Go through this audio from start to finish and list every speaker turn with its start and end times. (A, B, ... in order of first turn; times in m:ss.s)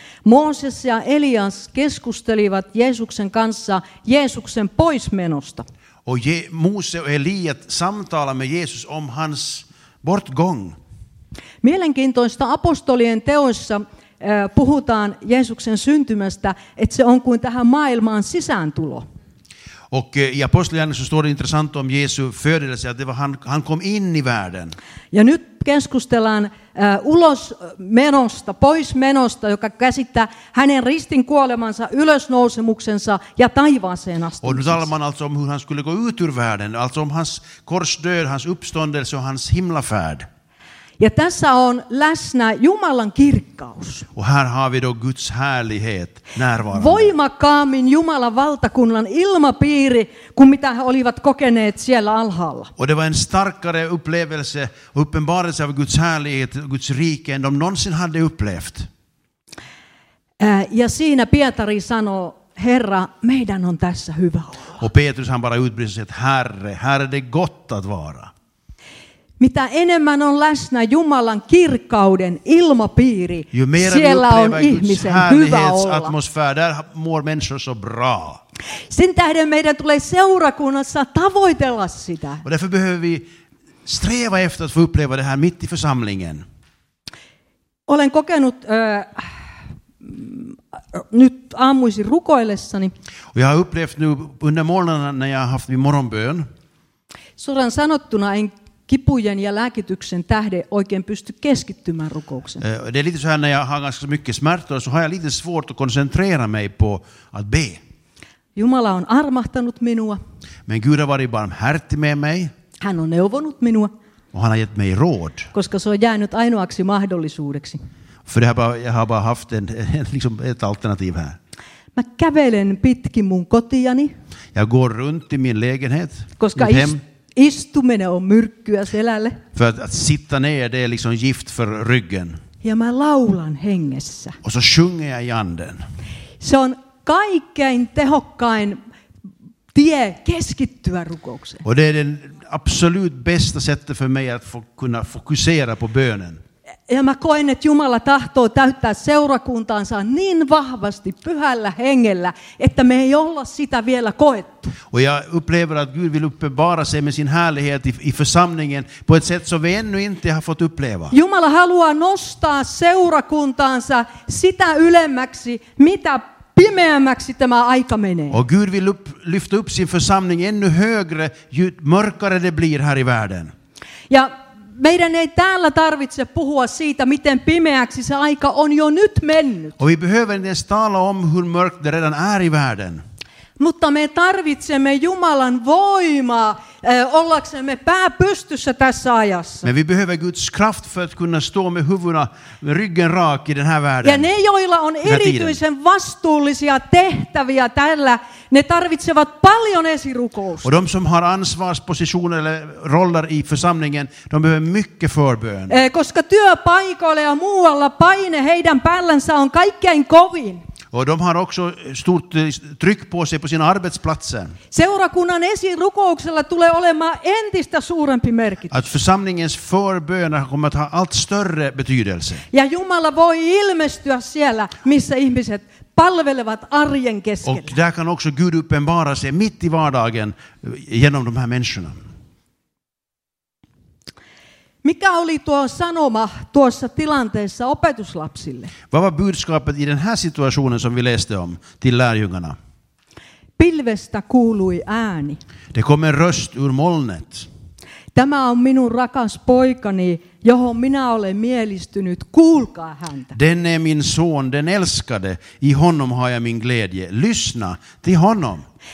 0:00.2-0:05.7 A
0:06.1-0:10.8 B
0:11.6-0:19.0 A
0:19.9-0:24.8 B
0:25.1-0:34.8 A
0:34.4-0:40.3 B
0:41.0-0:44.1 A
0:44.2-0:47.1 B
0:46.7-0:52.7 A
0:52.8-0:58.9 B
1:00.4-1:04.8 A
1:04.8-1:08.3 B
1:09.4-1:16.1 A
1:13.5-1:18.4 B
1:18.9-1:22.4 A
1:22.4-1:23.3 B
1:23.9-1:26.4 B
1:27.9-1:29.3 A
1:30.0-1:32.9 A
1:33.3-1:36.5 B
1:37.4-1:42.6 A
1:42.6-1:47.8 B
1:48.6-1:50.2 A
1:50.7-1:52.5 B
1:52.8-1:53.9 A
1:54.3-1:55.5 B
1:55.5-1:57.8 A
1:58.3-2:01.4 B
2:02.0-2:04.1 A
2:04.6-2:07.0 B
2:06.4-2:09.4 A
2:09.5-2:12.4 B
2:12.6-2:14.4 A
2:14.4-2:15.8 B
2:16.4-2:18.8 A
2:19.7-2:21.6 A
2:21.6-2:26.4 B
2:26.9-2:34.8 A
2:34.9-2:41.1 B
2:41.1-2:48.4 A
2:48.3-2:53.5 B
2:54.1-2:59.8 A
2:59.8-3:03.0 B
3:03.6-3:09.7 A
3:09.6-3:14.3 B
3:14.0-3:20.7 A
3:15.0-3:15.6 B
3:20.6-3:25.8 B
3:25.7-3:30.6 A
3:30.9-3:34.6 B
3:34.7-3:38.7 A
3:38.7-3:42.4 B
3:42.5-3:47.8 A
3:47.4-3:52.0 B
3:54.8-3:58.7 A
3:58.9-4:02.6 B
4:03.6-4:05.4 A
4:05.7-4:07.5 B
4:08.2-4:13.4 A
4:13.3-4:18.6 B